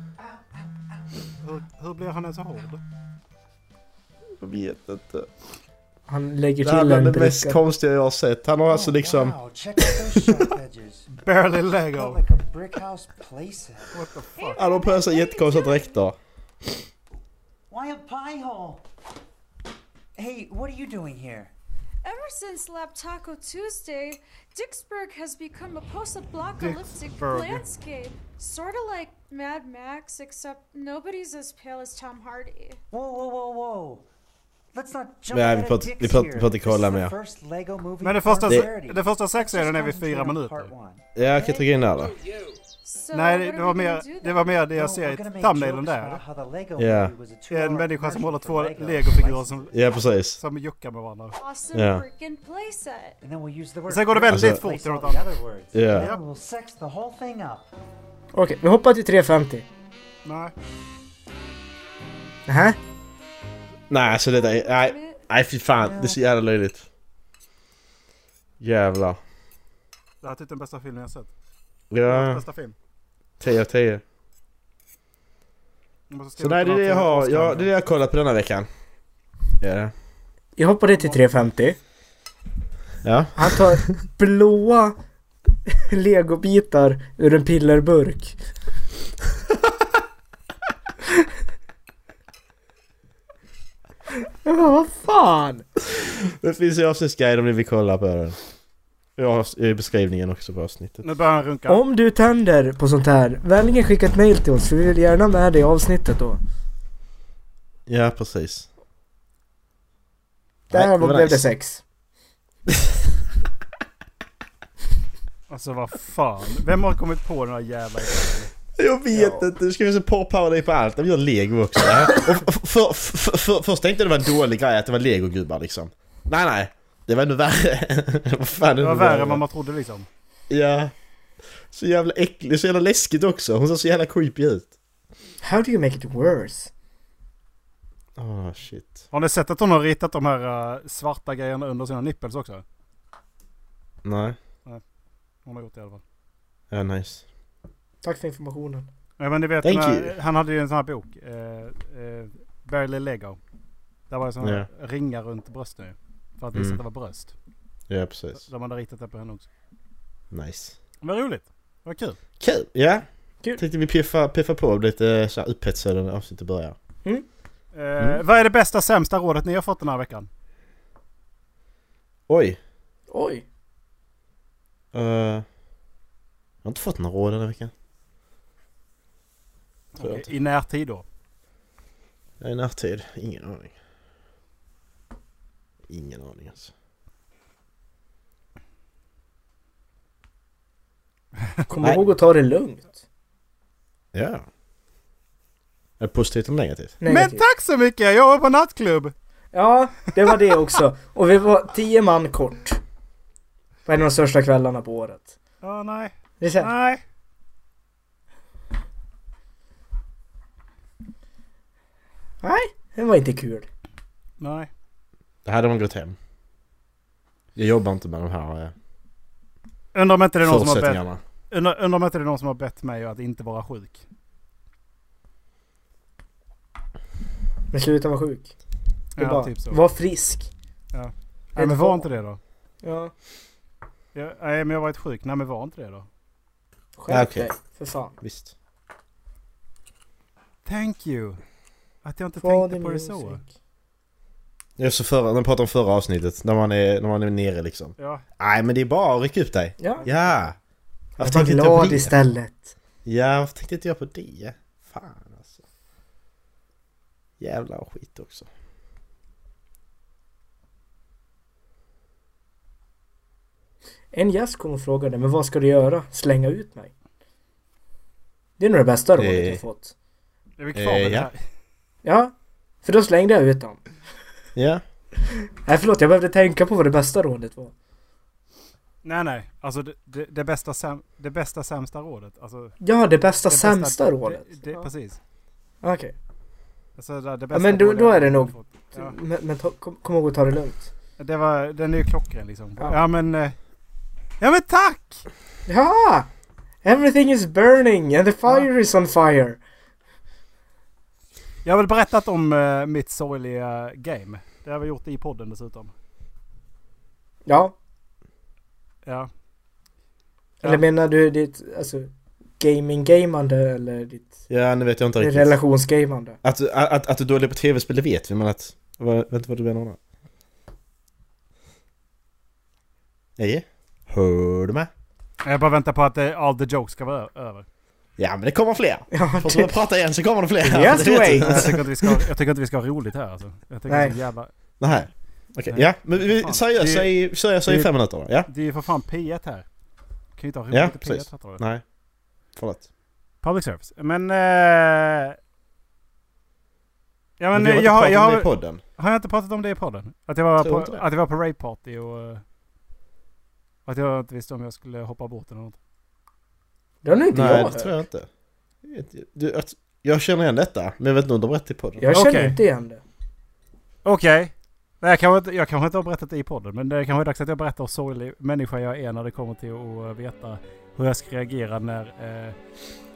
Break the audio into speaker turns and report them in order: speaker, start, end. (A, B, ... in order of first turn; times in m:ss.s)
0:00.2-0:01.3 A
0:01.4-0:02.8 B
0:04.4-0:05.3 C
0:06.1-0:07.6 D
0:06.6-0:10.3 C
0:08.7-0:11.2 A
0:11.2-0:12.2 B
0:11.7-0:14.0 A
0:13.9-0:14.6 B
0:14.4-0:16.0 E
0:14.6-0:16.2 C
0:17.7-0:18.8 A
0:20.2-0:21.5 A
0:22.0-0:32.8 E
0:26.4-0:27.7 B
0:32.9-0:34.1 A
0:34.7-0:41.0 A
0:35.3-0:37.1 C
0:38.0-0:40.7 B
0:41.2-0:42.2 C
0:41.4-0:41.7 E
0:42.8-0:44.6 E
0:43.1-0:46.2 B
0:44.7-0:49.8 A
0:46.8-0:47.1 C
0:47.5-0:49.7 B
0:49.7-0:50.4 C
0:50.4-0:51.4 B
0:51.4-0:53.2 E
0:51.7-0:52.0 C
0:53.2-0:57.7 A
0:53.9-0:55.3 B
0:54.3-0:54.6 C
0:55.7-0:56.1 C
0:56.0-0:56.2 B
0:58.3-0:59.6 D
1:00.2-1:00.5 B
1:02.5-1:02.8 D
1:03.9-1:06.9 C
1:04.2-1:05.2 E
1:05.8-1:06.2 A
1:08.6-1:09.2 C
1:10.2-1:11.3 B
1:11.9-1:12.4 C
1:12.1-1:12.8 B
1:13.4-1:14.0 C
1:16.1-1:17.7 B
1:16.4-1:18.7 C
1:19.6-1:19.9 C
1:20.6-1:21.8 D
1:21.0-1:21.2 B
1:23.0-1:23.9 C
1:23.4-1:25.0 D
1:25.7-1:28.4 D
1:34.2-1:35.6 D
1:35.8-1:38.4 C
1:39.2-1:41.0 C
1:41.0-1:41.8 B
1:41.7-1:46.4 D
1:47.9-1:48.7 C
1:50.7-1:51.5 C
1:50.7-1:51.8 D
1:55.5-1:58.5 B
1:58.8-2:09.4 C
1:59.1-1:59.5 B
2:08.8-2:10.1 B
2:10.5-2:10.9 C
2:11.7-2:14.7 C
2:15.4-2:16.7 D
2:18.2-2:19.0 C
2:19.1-2:22.6 B
2:24.0-2:24.4 C
2:25.4-2:26.0 B
2:26.7-2:27.2 C
2:28.0-2:28.9 D
2:29.2-2:33.4 B
2:29.6-2:30.1 C
2:34.1-2:37.3 B
2:36.5-2:36.8 C
2:37.9-2:38.4 C
2:38.4-2:39.5 B
2:40.3-2:40.8 C
2:41.0-2:42.2 B
2:42.4-2:46.8 C
2:47.7-2:50.3 B
2:52.3-2:52.6 C
2:53.1-2:53.4 D
2:54.9-2:55.4 C
2:56.6-2:57.7 C
3:00.0-3:01.0 B
3:00.0-3:00.3 C
3:02.4-3:03.7 C
3:05.9-3:06.7 C
3:11.7-3:13.0 D
3:14.1-3:14.5 C
3:16.0-3:17.0 C
3:17.0-3:17.4 D
3:17.1-3:19.1 B
3:19.5-3:22.8 D
3:23.9-3:25.3 D
3:25.6-3:27.0 B
3:26.4-3:26.7 D
3:32.4-3:33.7 D
3:34.4-3:34.7 B
3:35.4-3:36.2 C
3:37.6-3:38.7 C
3:39.9-3:44.0 B
3:40.4-3:41.2 C
3:47.7-3:48.5 D
3:49.2-3:49.8 B
3:49.2-3:50.5 D
3:50.9-3:52.4 B
3:51.6-3:52.1 D
3:52.8-3:53.1 D
3:54.1-3:56.1 B
3:57.0-3:58.2 D
3:57.1-3:57.5 C
3:58.2-3:58.5 C
4:00.6-4:01.4 B
4:02.0-4:03.4 B
4:02.4-4:03.4 D
4:04.8-4:10.6 C
4:08.0-4:08.2 B
4:09.8-4:10.1 D
4:10.0-4:10.4 B
4:11.2-4:12.1 C
4:11.2-4:12.7 D
4:13.0-4:15.6 C
4:17.4-4:18.5 C
4:24.1-4:26.9 D
4:28.6-4:29.9 D
4:29.2-4:29.6 C
4:30.6-4:31.4 B
4:30.7-4:31.3 C
4:32.0-4:32.3 D
4:32.8-4:33.8 D
4:34.6-4:34.8 C
4:35.6-4:37.7 D
4:39.0-4:42.8 B
4:42.8-4:44.8 D
4:43.5-4:45.2 B
4:45.8-4:46.1 D
4:47.0-4:49.2 B
4:47.5-4:50.9 D
4:51.2-4:53.6 B
4:54.4-4:55.2 B
4:55.7-4:56.3 D
4:56.8-4:59.6 D
5:01.6-5:05.9 B
5:07.5-5:07.7 D
5:09.0-5:09.3 B
5:10.6-5:12.1 D
5:12.6-5:14.4 D
5:14.5-5:15.6 C
5:15.2-5:16.4 D
5:16.4-5:20.0 C
5:23.4-5:24.9 C
5:25.4-5:27.7 B
5:28.2-5:31.8 C
5:29.1-5:29.7 D
5:30.6-5:32.0 D
5:31.3-5:34.5 B
5:33.9-5:34.2 D
5:34.8-5:38.5 C
5:35.7-5:37.1 B
5:38.5-5:39.7 B
5:40.4-5:41.6 B
5:40.7-5:41.8 C
5:42.6-5:42.8 C
5:43.4-5:45.4 B
5:47.4-5:52.4 B
5:47.5-5:48.8 C
5:50.6-5:51.0 C
5:53.9-5:55.8 B
5:57.0-5:58.0 D
5:57.3-5:58.3 C
5:58.8-6:02.1 C
6:02.0-6:03.0 D
6:02.1-6:02.6 B
6:04.0-6:12.6 B